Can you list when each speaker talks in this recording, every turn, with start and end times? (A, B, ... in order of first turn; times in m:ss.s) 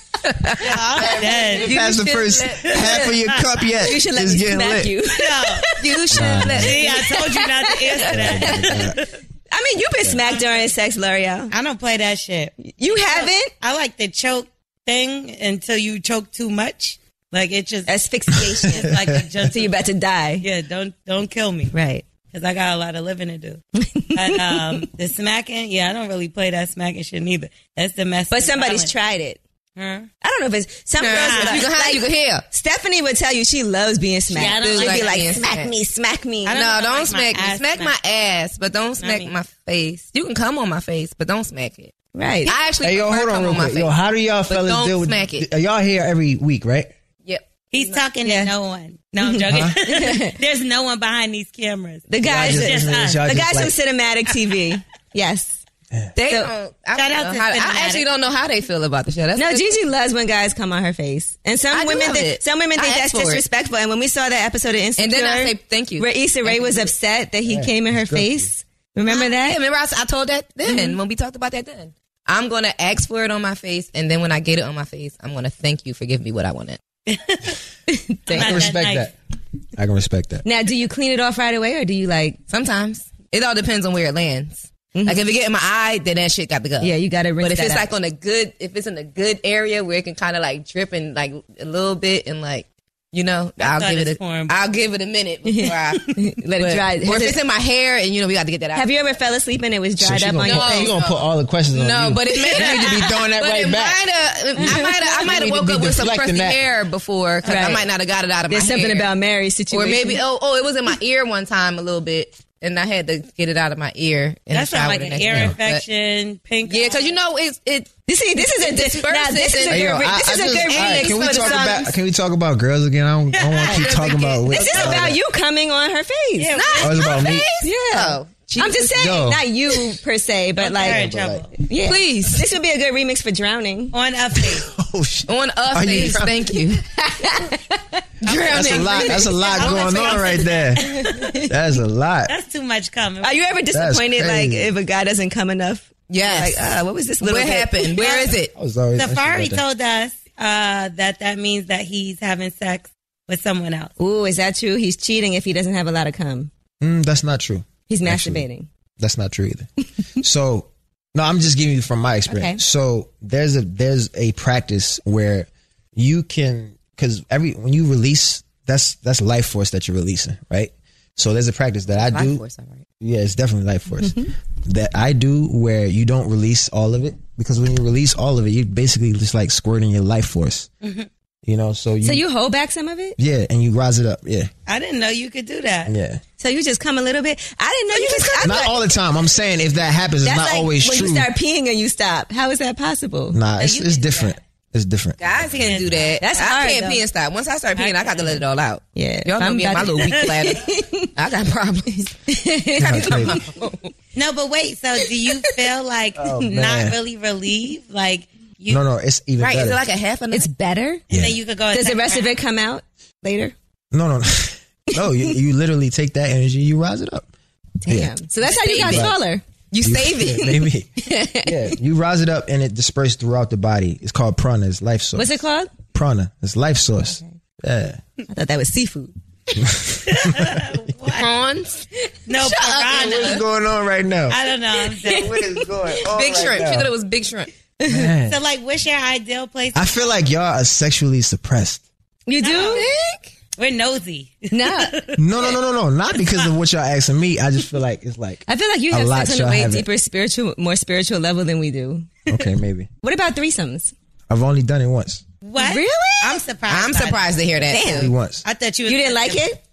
0:00.2-0:03.2 A
0:00.6-0:01.8 B
0:00.7-0:04.9 C
0:02.6-0:03.5 B
0:03.8-0:06.0 D
0:05.1-0:05.7 B
0:05.8-0:07.2 A
0:06.1-0:06.8 C
0:06.5-0:09.0 B
0:06.8-0:08.8 D
0:08.1-0:09.0 C
0:09.5-0:11.5 D
0:10.2-0:10.7 B
0:11.5-0:17.9 B
0:12.6-0:13.5 D
0:17.9-0:20.4 D
0:18.4-0:19.2 C
0:18.7-0:19.7 B
0:20.4-0:21.7 B
0:21.7-0:22.0 D
0:22.3-0:23.6 B
0:23.8-0:24.8 D
0:24.1-0:28.9 B
0:28.3-0:29.4 D
0:29.8-0:30.1 B
0:30.2-0:36.6 D
0:31.0-0:32.4 A
0:31.1-0:31.7 B
0:34.3-0:35.2 B
0:34.3-0:35.7 A
0:36.4-0:37.9 B
0:36.5-0:41.9 A
0:39.0-0:39.3 B
0:42.1-0:42.5 D
0:42.4-0:43.9 A
0:42.8-0:46.9 C
0:44.5-0:45.5 A
0:47.2-0:48.0 A
0:47.7-0:53.2 B
0:48.2-0:48.5 D
0:49.2-0:50.3 D
0:49.5-0:49.8 C
0:52.1-0:55.6 D
0:52.2-0:53.7 C
0:56.2-0:59.7 A
0:56.2-0:56.5 D
0:56.9-0:58.1 B
0:59.4-1:09.6 D
1:01.7-1:03.4 A
1:05.0-1:06.9 A
1:07.5-1:08.4 C
1:09.1-1:16.8 A
1:10.7-1:11.0 D
1:17.1-1:17.6 B
1:17.9-1:18.8 D
1:18.3-1:19.1 B
1:18.3-1:19.1 C
1:19.8-1:20.4 C
1:20.4-1:22.4 D
1:22.5-1:38.9 A
1:24.9-1:25.2 D
1:26.8-1:27.9 D
1:33.6-1:34.6 B
1:35.4-1:37.4 D
1:38.7-1:40.9 D
1:40.0-1:44.0 C
1:40.4-1:41.2 A
1:41.7-1:49.1 A
1:42.5-1:42.9 B
1:44.6-1:46.6 C
1:47.4-1:47.8 B
1:47.4-1:47.8 D
1:48.5-1:50.2 D
1:49.7-1:55.8 A
1:54.5-1:57.1 B
1:55.2-1:55.6 C
1:56.7-2:01.9 A
1:58.1-2:01.9 D
1:59.7-2:05.2 C
2:03.3-2:05.0 B
2:04.5-2:06.9 D
2:06.4-2:07.3 B
2:06.8-2:07.4 C
2:07.0-2:09.2 A
2:07.6-2:11.0 D
2:08.9-2:09.4 C
2:10.6-2:11.5 B
2:10.8-2:11.5 C
2:11.6-2:13.9 D
2:11.8-2:12.5 A
2:13.9-2:14.7 B
2:14.3-2:16.6 C
2:15.3-2:16.8 A
2:16.8-2:18.0 D
2:18.2-2:19.2 A
2:18.3-2:21.3 B
2:18.4-2:22.3 C
2:18.6-2:21.5 D
2:22.3-2:23.5 B
2:23.2-2:28.3 D
2:23.7-2:24.7 C
2:26.1-2:26.6 A
2:27.2-2:28.5 A
2:27.9-2:28.4 B
2:28.5-2:29.6 C
2:29.0-2:33.9 B
2:34.0-2:36.5 D
2:36.8-2:38.4 C
2:37.9-2:38.7 D
2:39.0-2:39.7 C
2:40.2-2:52.4 C
2:42.3-2:42.6 D
2:52.0-2:52.8 A
2:53.0-3:00.7 C
2:54.0-2:54.3 D
3:00.8-3:01.1 B
3:01.4-3:02.2 C
3:02.0-3:03.2 D
3:03.2-3:04.5 C
3:04.7-3:05.9 B
3:05.8-3:06.2 C
3:06.4-3:08.8 D
3:07.9-3:08.6 A
3:08.4-3:11.3 C
3:10.2-3:13.4 D
3:13.3-3:15.6 C
3:13.6-3:14.3 A
3:15.2-3:22.1 A
3:15.6-3:16.1 B
3:16.2-3:17.0 D
3:17.7-3:18.4 B
3:18.9-3:21.1 D
3:20.0-3:20.4 B
3:22.3-3:23.4 D
3:22.8-3:23.4 C
3:22.8-3:23.9 A
3:24.1-3:28.8 B
3:26.2-3:27.0 C
3:28.7-3:29.8 C
3:29.4-3:30.5 A
3:30.3-3:31.0 D
3:31.1-3:31.4 C
3:31.1-3:32.4 B
3:31.7-3:33.5 D
3:33.9-3:37.3 C
3:34.9-3:35.3 D
3:37.8-3:39.4 D
3:37.9-3:38.2 C
3:38.4-3:39.2 A
3:38.7-3:39.2 C
3:39.7-3:40.7 A
3:39.8-3:40.9 C
3:41.0-3:41.5 D
3:41.4-3:48.0 C
3:45.2-3:45.7 D
3:48.3-3:49.1 D
3:49.6-3:50.8 C
3:50.1-3:51.3 B
3:51.0-3:53.4 A
3:52.3-3:53.4 B
3:52.9-3:54.4 C
3:54.3-3:55.4 B
3:55.0-3:56.9 C
3:56.0-3:57.5 A
3:57.8-3:58.1 D
3:57.9-3:58.4 C
3:58.3-4:00.1 B
3:59.7-4:01.8 C
4:02.3-4:03.2 D
4:02.4-4:02.9 B
4:03.6-4:05.6 B
4:04.5-4:05.0 D
4:05.2-4:09.9 C
4:06.2-4:06.5 B
4:08.5-4:12.1 D
4:12.3-4:12.9 C
4:13.0-4:13.9 D
4:14.3-4:15.2 C
4:15.4-4:17.4 B
4:15.6-4:16.4 D
4:16.2-4:18.1 A
4:17.7-4:18.1 D
4:17.7-4:18.4 C
4:18.4-4:19.4 B
4:18.9-4:19.6 D